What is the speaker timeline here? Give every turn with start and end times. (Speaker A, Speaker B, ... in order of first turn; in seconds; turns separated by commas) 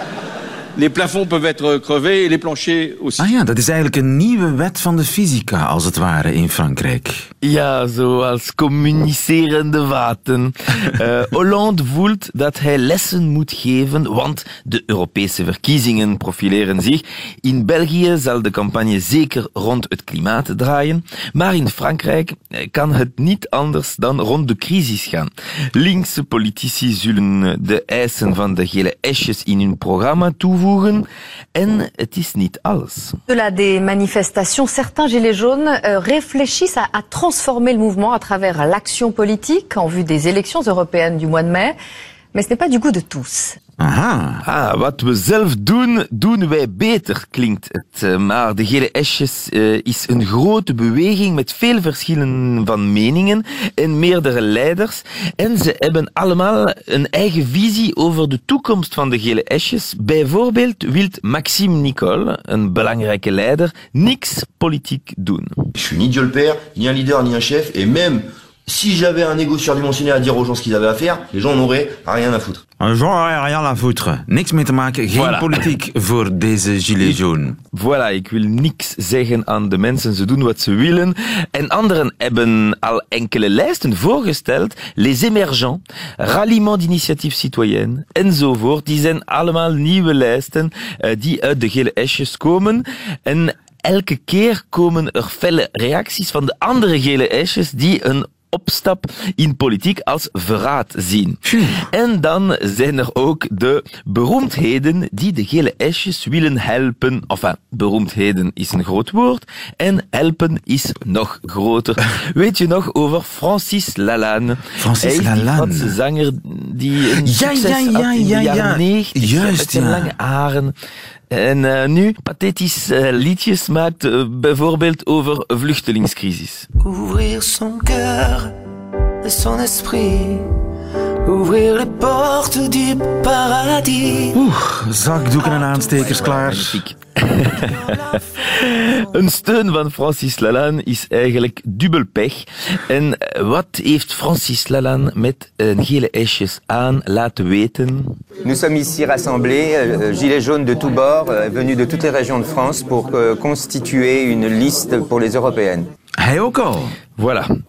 Speaker A: 0.8-3.3, Speaker B: 3.2-7.3, Speaker C: 7.4-33.2, Speaker D: 33.3-41.8, Speaker D: 42.3-43.6, Speaker B: 43.8-44.4, Speaker C: 44.4-65.6, Speaker E: 65.8-72.6, Speaker B: 72.8-77.6, Speaker C: 75.1-75.6, Speaker C: 77.7-120.7, Speaker B: 101.5-101.9, Speaker B: 114.8-116.0, Speaker B: 117.1-120.1, Speaker C: 121.3-126.7, Speaker F: 126.8-128.3, Speaker F: 129.3-130.2, Speaker F: 131.4-134.1, Speaker B: 134.3-136.8, Speaker C: 135.8-148.2, Speaker G: 148.4-155.9, Speaker B: 156.2-157.0, Speaker C: 157.2-157.5